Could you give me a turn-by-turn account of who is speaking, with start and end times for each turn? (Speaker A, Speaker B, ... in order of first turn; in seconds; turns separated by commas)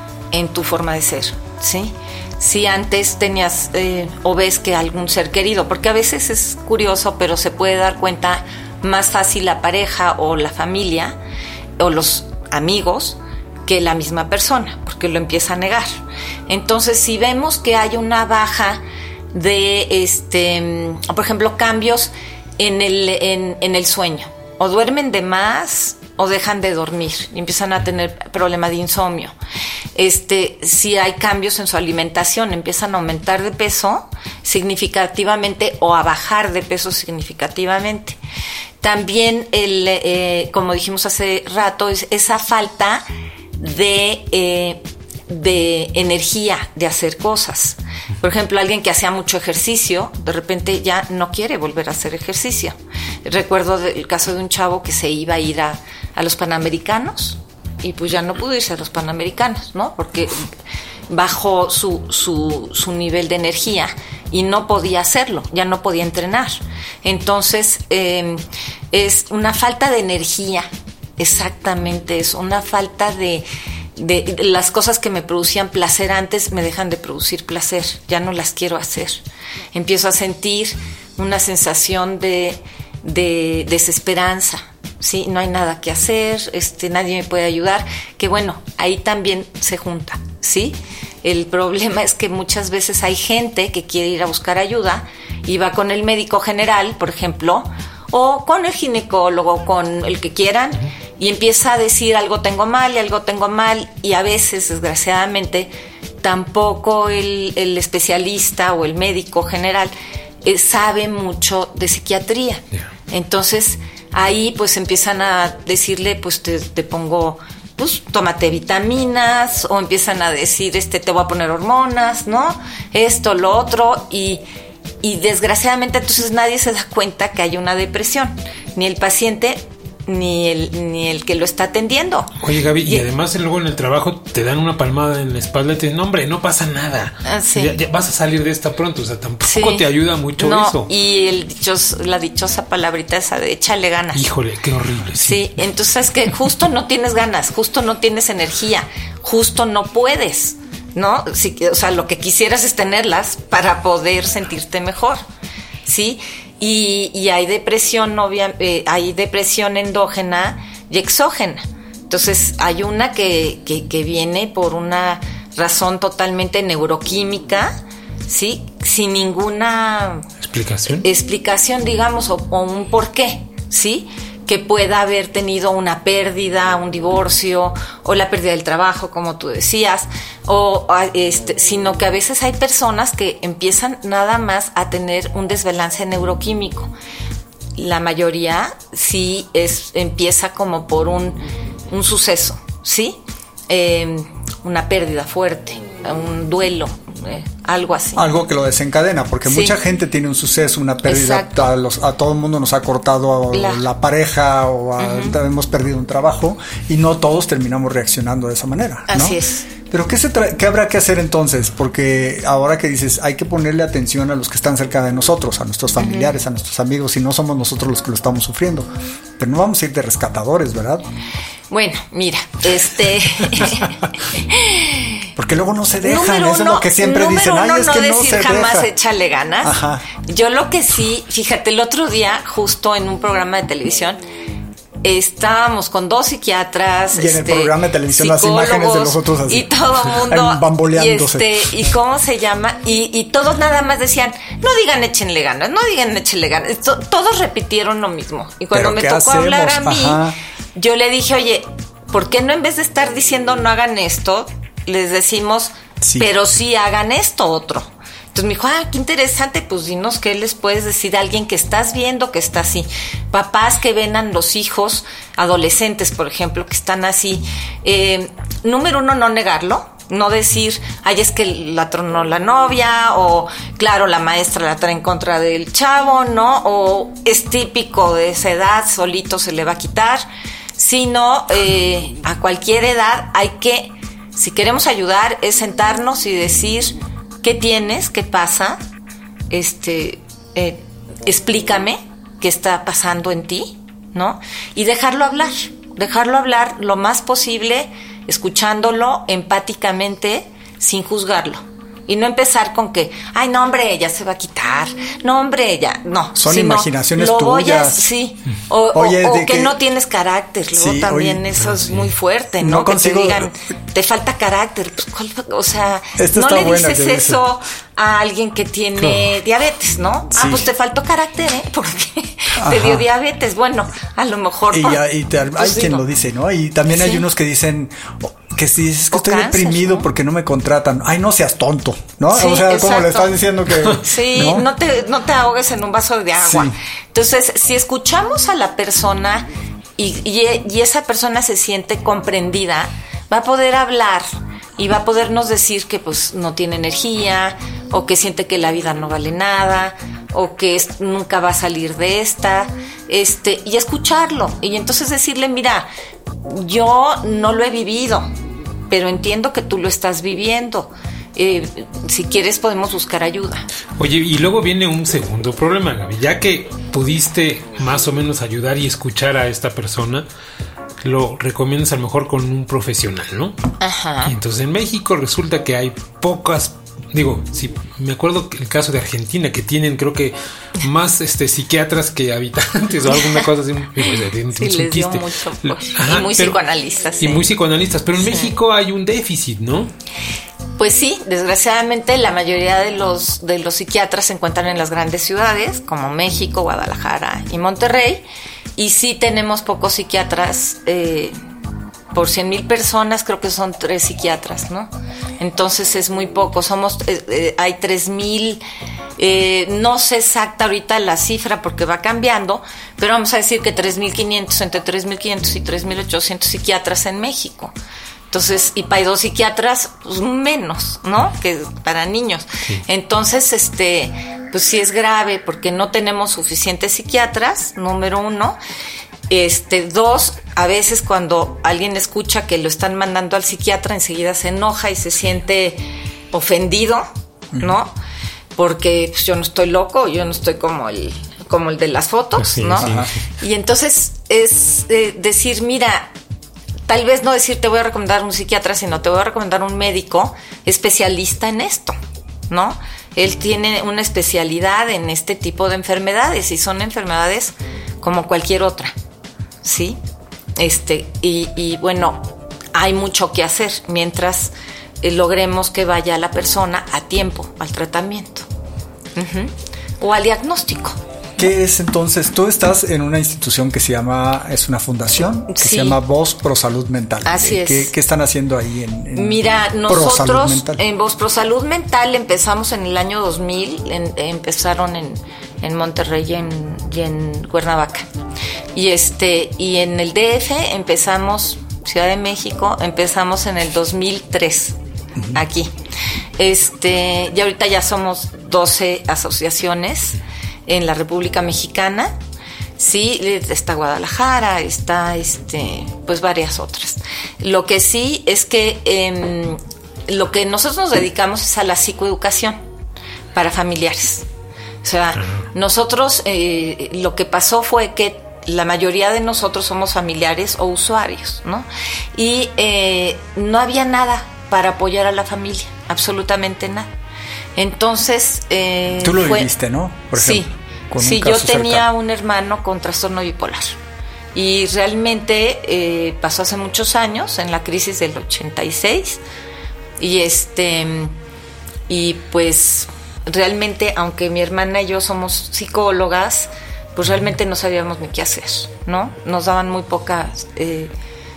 Speaker A: 0.3-11.2, Speaker A: 11.8-29.3, Speaker A: 29.9-38.2, Speaker A: 38.8-60.5, Speaker A: 61.1-79.2, Speaker A: 79.7-105.7, Speaker A: 106.2-124.4, Speaker A: 125.0-133.1, Speaker B: 132.4-140.9, Speaker A: 137.2-137.8, Speaker A: 139.4-139.9, Speaker A: 140.4-144.2, Speaker B: 144.1-145.5, Speaker A: 145.2-155.2, Speaker A: 155.8-170.3, Speaker B: 170.4-171.1, Speaker A: 171.0-186.9, Speaker A: 187.8-193.2, Speaker A: 193.7-198.3, Speaker C: 198.2-221.1, Speaker A: 199.5-199.8, Speaker A: 201.1-201.7, Speaker A: 203.5-203.8, Speaker A: 205.0-205.4, Speaker A: 209.1-209.7, Speaker A: 216.0-216.4, Speaker A: 221.7-225.3, Speaker C: 225.4-228.9, Speaker A: 226.0-234.2, Speaker C: 229.6-230.1, Speaker A: 235.0-250.2, Speaker C: 237.1-241.7, Speaker C: 248.7-250.4, Speaker A: 250.8-288.8, Speaker C: 256.0-256.3, Speaker A: 289.5-326.0, Speaker C: 306.4-308.1, Speaker C: 308.9-309.8, Speaker C: 310.8-311.5, Speaker B: 311.6-312.1, Speaker C: 312.6-313.5, Speaker C: 316.2-317.4, Speaker B: 319.0-319.3, Speaker C: 320.4-320.7, Speaker C: 322.6-323.1, Speaker C: 324.7-334.7, Speaker A: 326.9-327.2, Speaker A: 329.1-330.1, Speaker A: 332.3-333.3, Speaker A: 334.0-355.9, Speaker C: 336.4-336.8, Speaker A: 356.4-358.3, Speaker A: 358.9-363.7, Speaker B: 364.0-370.3, Speaker B: 371.0-373.6, Speaker A: 373.8-374.3, Speaker B: 374.2-386.6, Speaker A: 384.6-387.5, Speaker B: 387.2-389.9, Speaker A: 388.2-388.5, Speaker A: 390.8-398.3, Speaker A: 398.8-401.4, Speaker A: 402.1-408.6, Speaker A: 409.2-417.7, Speaker A: 418.3-428.6, Speaker A: 429.3-437.9, Speaker A: 438.6-446.1, Speaker B: 442.4-443.1, Speaker C: 442.8-443.1, Speaker A: 446.9-452.0, Speaker A: 452.5-458.9, Speaker A: 459.6-460.0, Speaker A: 460.6-468.5, Speaker A: 469.2-471.0, Speaker C: 471.4-480.8, Speaker A: 475.5-476.0, Speaker A: 477.2-477.9, Speaker A: 479.1-488.1, Speaker A: 488.8-494.8, Speaker C: 495.2-495.4, Speaker A: 495.3-495.7, Speaker A: 496.4-502.1, Speaker A: 502.8-512.6, Speaker A: 513.4-514.2, Speaker A: 514.8-526.9, Speaker B: 515.2-515.5, Speaker A: 527.6-529.5, Speaker C: 529.0-531.9, Speaker A: 530.1-533.8, Speaker A: 534.3-539.2, Speaker A: 540.0-541.1, Speaker A: 541.9-550.9